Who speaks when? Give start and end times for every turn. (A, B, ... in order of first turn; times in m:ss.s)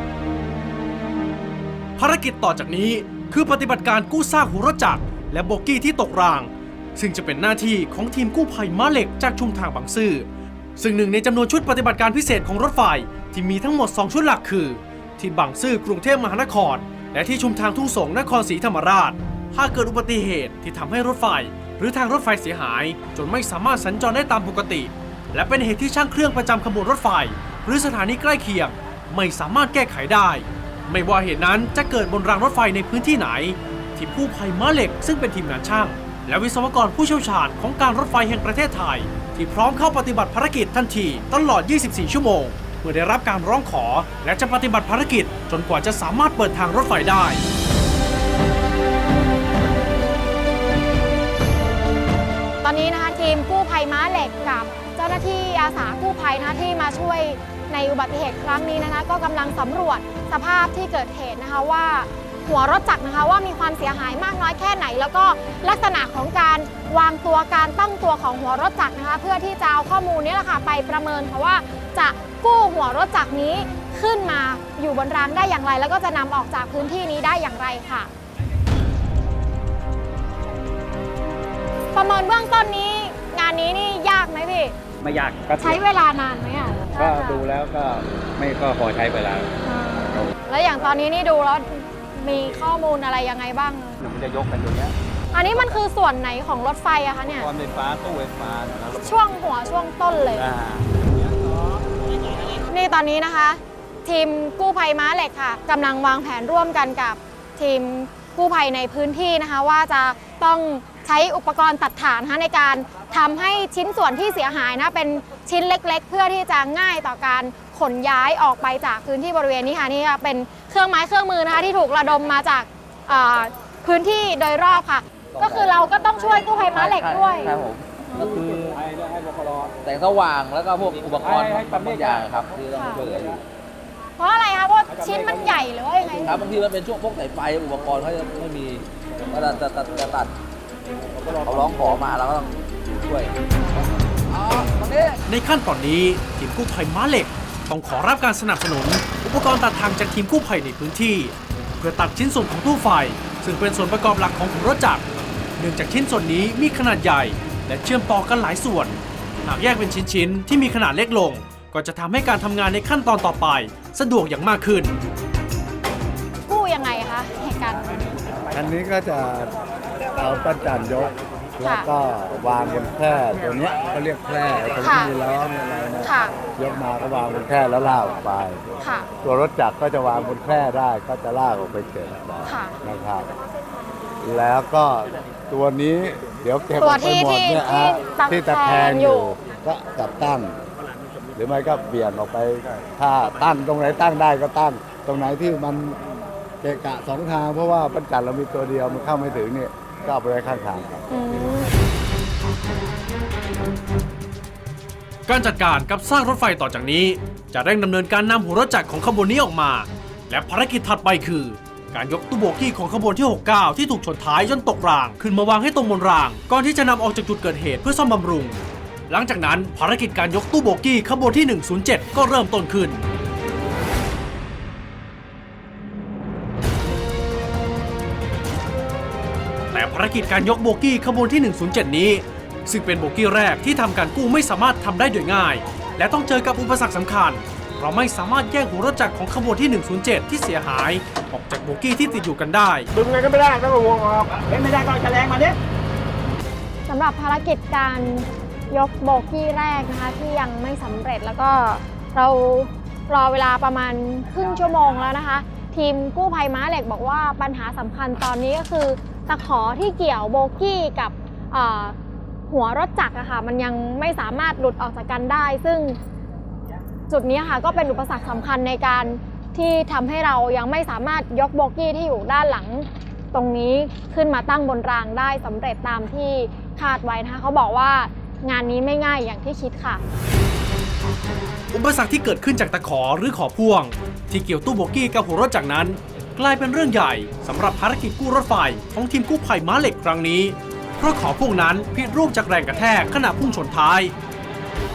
0:02.0-0:10.3 A
0:10.8-0:47.4 A
0:52.6-1:18.1 B
1:21.9-1:24.8 B
1:25.0-1:25.8 C
1:25.6-1:27.4 B
1:27.0-1:29.5 C
1:29.6-1:34.0 B
1:34.0-1:34.9 C
1:35.3-1:37.5 B
1:37.3-1:39.1 C
1:39.0-1:40.5 B
1:40.4-1:40.8 C
1:42.7-2:07.6 B
2:06.7-2:08.8 D
2:09.0-2:09.7 C
2:09.8-2:13.4 D
2:12.7-2:13.0 B
2:14.2-2:16.4 B
2:16.0-2:20.3 D
2:21.4-2:23.3 D
2:24.3-2:25.2 D
2:25.2-2:35.0 A
2:35.6-2:45.0 A
2:46.5-2:48.0 B
2:48.5-2:49.5 E
2:50.1-3:03.3 E
2:51.6-2:51.9 B
2:54.8-2:55.1 B
2:56.0-2:56.4 B
2:58.8-2:59.1 B
3:02.4-3:02.8 B
3:04.2-3:10.6 E
3:06.8-3:09.4 B
3:11.4-3:16.0 E
3:16.6-3:21.0 E
3:21.1-3:21.7 B
3:25.3-3:38.6 A
3:39.1-3:43.0 A
3:49.7-4:02.9 A
4:03.0-4:05.5 F
4:06.9-4:22.0 B
4:22.5-4:26.0 B
4:27.1-4:40.0 B
4:41.7-4:54.1 A